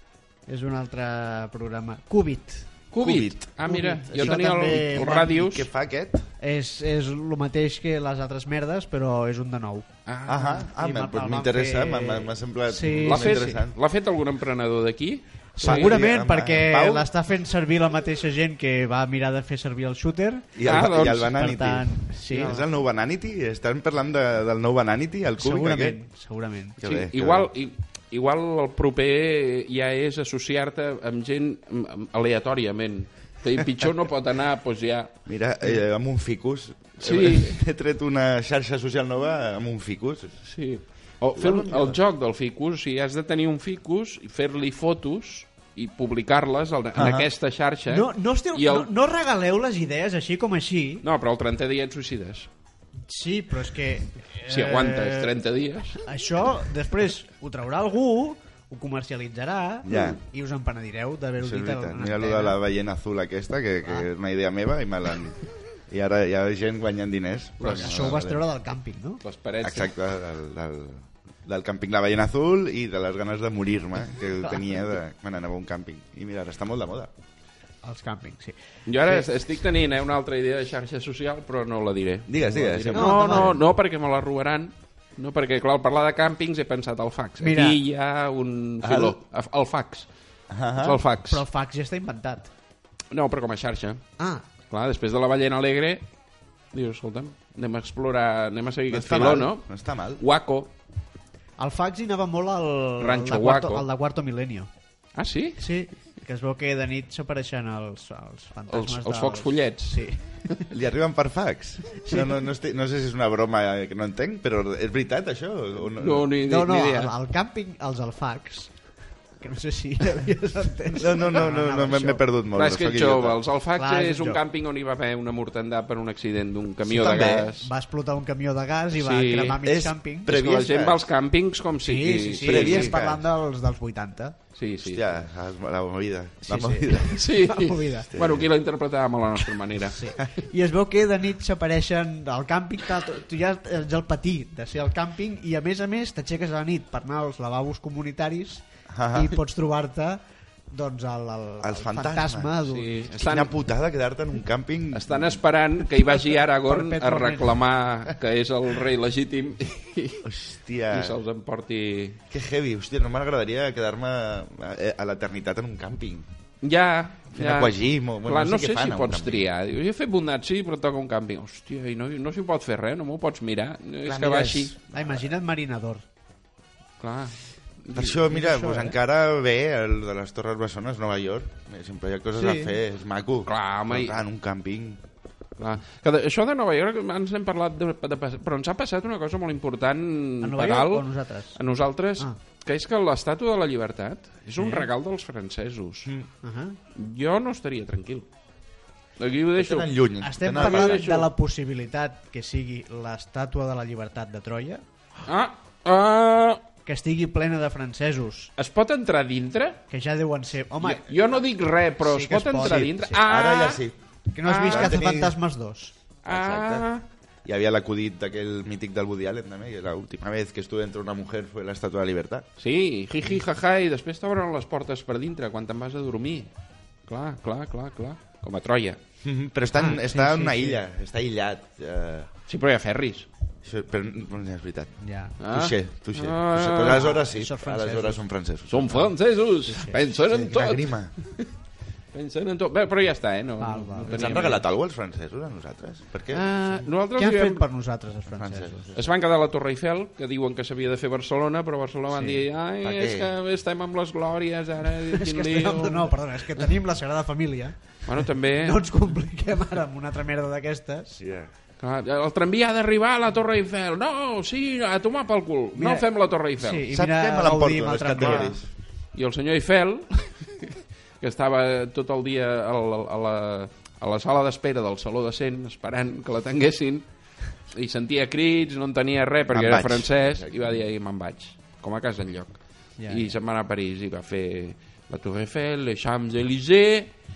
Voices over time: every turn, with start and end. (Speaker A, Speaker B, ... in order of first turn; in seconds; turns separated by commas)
Speaker A: 0.5-2.7, Speaker B: 2.9-5.7, Speaker C: 3.0-3.5, Speaker A: 3.7-5.3, Speaker C: 4.0-6.3, Speaker A: 6.4-13.6, Speaker B: 10.1-10.6, Speaker C: 10.3-13.8, Speaker B: 13.0-16.0, Speaker A: 15.6-22.6, Speaker C: 15.6-17.1, Speaker C: 20.5-26.0, Speaker B: 20.6-21.4, Speaker B: 22.3-22.6, Speaker A: 25.4-26.8, Speaker C: 26.8-27.5, Speaker B: 26.8-35.1, Speaker C: 35.2-40.4, Speaker B: 37.0-37.6, Speaker B: 40.4-48.9, Speaker C: 41.4-42.0, Speaker C: 46.9-47.3, Speaker A: 47.9-51.0, Speaker B: 51.0-52.5, Speaker A: 53.1-55.4, Speaker B: 54.5-56.0, Speaker A: 56.0-62.6, Speaker C: 59.8-60.2, Speaker C: 61.4-68.4, Speaker A: 67.6-69.2, Speaker B: 69.2-69.9, Speaker C: 69.6-77.1, Speaker A: 77.8-79.2, Speaker B: 78.9-90.1, Speaker C: 82.3-83.6, Speaker A: 82.9-83.5, Speaker A: 87.4-87.8, Speaker C: 88.8-89.2, Speaker C: 90.5-91.0, Speaker B: 90.8-91.4, Speaker A: 91.3-92.5, Speaker B: 93.1-94.0, Speaker A: 94.2-94.4, Speaker B: 94.7-96.0, Speaker B: 96.7-100.7, Speaker C: 98.9-100.2, Speaker A: 99.0-99.3, Speaker A: 101.6-104.7, Speaker B: 103.0-103.8, Speaker B: 105.1-105.7, Speaker A: 105.6-110.6, Speaker B: 108.7-110.5, Speaker C: 110.7-116.3, Speaker A: 112.0-112.3, Speaker B: 116.0-117.1, Speaker A: 116.4-118.7, Speaker A: 119.4-122.2, Speaker C: 121.0-123.4, Speaker B: 122.5-127.7, Speaker A: 123.8-124.4, Speaker C: 126.8-127.5, Speaker A: 127.3-130.3, Speaker B: 128.9-129.6, Speaker C: 129.6-131.0, Speaker B: 130.3-132.9, Speaker A: 131.8-134.4, Speaker C: 132.4-133.2, Speaker B: 134.6-135.2, Speaker C: 134.8-137.3, Speaker A: 136.5-138.1, Speaker B: 137.1-140.1, Speaker C: 138.1-138.5, Speaker A: 139.8-153.1, Speaker C: 148.9-149.4, Speaker C: 151.6-152.5, Speaker B: 152.7-153.5, Speaker C: 153.1-155.4, Speaker B: 154.9-160.3, Speaker A: 156.6-157.6, Speaker C: 160.2-161.2, Speaker B: 160.9-162.2, Speaker C: 162.3-166.2, Speaker B: 166.6-174.7, Speaker C: 167.3-169.4, Speaker C: 174.1-175.2, Speaker A: 174.2-176.0, Speaker B: 177.0-178.1, Speaker C: 177.9-185.0, Speaker A: 178.2-178.9, Speaker A: 182.3-182.8, Speaker B: 183.4-184.2, Speaker B: 185.6-196.1, Speaker A: 190.4-191.6, Speaker A: 194.6-194.9, Speaker A: 196.4-196.8, Speaker B: 196.9-198.3, Speaker B: 199.2-201.3, Speaker C: 199.6-201.0, Speaker A: 200.2-204.8, Speaker B: 205.2-206.6, Speaker A: 206.8-208.5, Speaker B: 208.6-209.8, Speaker A: 209.9-211.2, Speaker B: 210.8-213.8, Speaker A: 212.0-213.2, Speaker C: 212.6-213.9, Speaker A: 214.3-215.9, Speaker B: 214.4-215.3, Speaker C: 214.6-215.1, Speaker B: 216.2-217.0, Speaker C: 216.3-216.9, Speaker C: 217.4-222.4, Speaker B: 222.6-226.5, Speaker B: 227.1-229.0, Speaker C: 229.2-232.3, Speaker A: 229.7-230.8, Speaker B: 232.5-233.3, Speaker C: 233.6-239.1, Speaker A: 235.0-235.3, Speaker B: 235.4-237.2, Speaker A: 236.8-238.2, Speaker B: 238.7-241.5, Speaker A: 239.6-240.0, Speaker C: 240.2-241.1, Speaker B: 242.1-244.6, Speaker A: 243.6-244.6, Speaker C: 244.1-246.4, Speaker A: 246.3-248.9, Speaker B: 246.7-247.6, Speaker C: 248.3-248.9, Speaker B: 248.9-256.6, Speaker A: 252.1-252.4, Speaker C: 252.8-253.3, Speaker A: 255.1-261.2, Speaker B: 258.1-258.8, Speaker C: 261.2-261.5, Speaker B: 261.8-266.9, Speaker A: 265.7-266.1, Speaker A: 266.6-268.5, Speaker C: 266.9-268.7, Speaker B: 268.2-268.5, Speaker B: 269.1-277.0, Speaker B: 277.7-287.1, Speaker C: 279.5-280.7, Speaker A: 283.0-283.3